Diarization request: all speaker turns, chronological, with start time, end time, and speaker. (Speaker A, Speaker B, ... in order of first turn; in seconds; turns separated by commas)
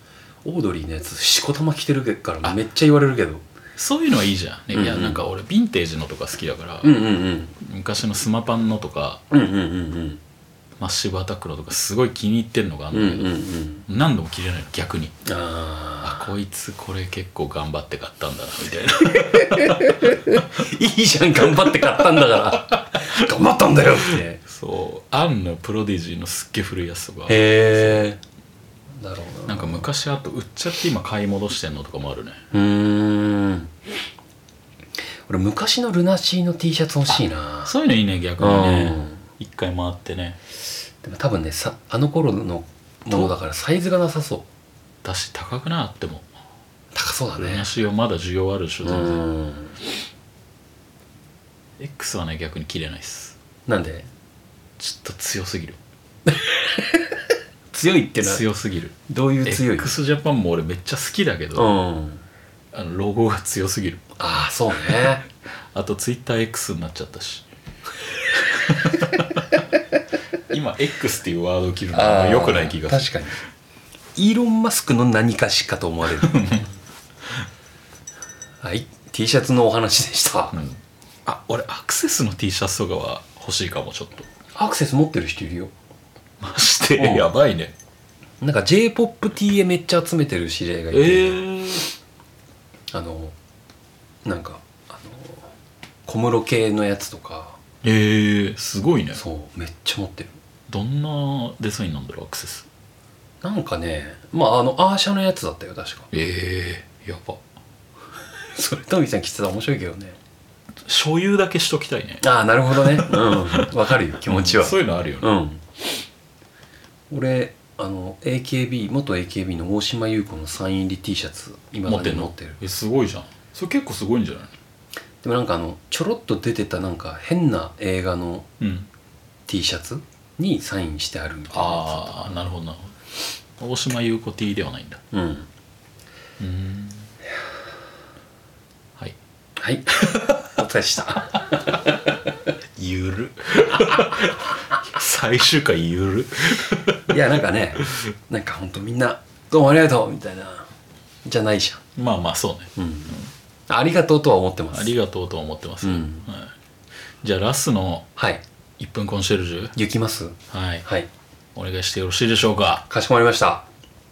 Speaker A: 0.5-3.4, Speaker B: 3.8-7.0, Speaker A: 4.7-5.2, Speaker A: 6.8-7.5, Speaker B: 7.6-9.2, Speaker A: 9.3-10.2, Speaker B: 10.8-13.3, Speaker A: 12.9-13.9, Speaker B: 13.9-15.2, Speaker A: 15.2-16.3, Speaker B: 16.0-20.2, Speaker A: 19.1-24.4, Speaker B: 21.6-22.0, Speaker B: 24.4-28.1, Speaker A: 27.3-28.2, Speaker A: 29.0-29.9, Speaker B: 29.5-32.4, Speaker A: 32.5-33.7, Speaker A: 35.3-37.7, Speaker B: 37.6-40.4, Speaker A: 38.4-39.2, Speaker A: 41.0-44.5, Speaker B: 45.0-46.3, Speaker A: 47.0-47.7, Speaker B: 47.4-49.2, Speaker A: 48.8-49.8, Speaker B: 51.8-53.4, Speaker A: 53.7-54.1, Speaker B: 54.8-55.8, Speaker A: 56.3-57.1, Speaker A: 57.7-58.4, Speaker B: 58.2-61.7, Speaker A: 59.1-59.9, Speaker A: 61.6-62.2, Speaker B: 62.7-64.0, Speaker A: 64.2-65.2, Speaker B: 65.7-67.5, Speaker B: 68.3-69.6, Speaker B: 70.4-73.1, Speaker A: 71.9-73.4, Speaker A: 74.2-76.4, Speaker B: 76.2-76.7, Speaker A: 78.6-80.6, Speaker B: 80.5-84.3, Speaker A: 84.5-85.7, Speaker B: 86.4-87.7, Speaker A: 87.0-87.3, Speaker A: 88.4-91.4, Speaker B: 90.9-91.9, Speaker A: 92.9-93.3, Speaker A: 94.2-95.5, Speaker A: 96.1-97.6, Speaker B: 97.8-99.2, Speaker A: 99.1-100.3, Speaker B: 100.7-102.7, Speaker A: 103.4-106.1, Speaker B: 106.1-107.4, Speaker A: 108.5-110.2, Speaker B: 110.8-113.7, Speaker A: 112.2-115.6, Speaker B: 114.3-115.3, Speaker A: 117.1-122.6, Speaker B: 121.9-124.5, Speaker A: 125.2-128.5, Speaker B: 128.6-128.9, Speaker A: 129.5-132.3, Speaker B: 131.5-132.9, Speaker B: 133.6-135.0, Speaker A: 135.1-135.5, Speaker B: 136.4-137.1, Speaker A: 139.6-142.1, Speaker B: 142.8-147.2, Speaker A: 147.1-150.7, Speaker A: 151.2-151.8, Speaker B: 152.0-153.3, Speaker A: 152.8-154.9, Speaker B: 154.7-156.5, Speaker A: 155.8-156.3, Speaker B: 157.2-158.1, Speaker A: 158.2-158.4, Speaker B: 158.8-159.8, Speaker A: 159.8-161.1, Speaker B: 160.5-160.9, Speaker B: 161.6-162.9, Speaker A: 162.9-163.7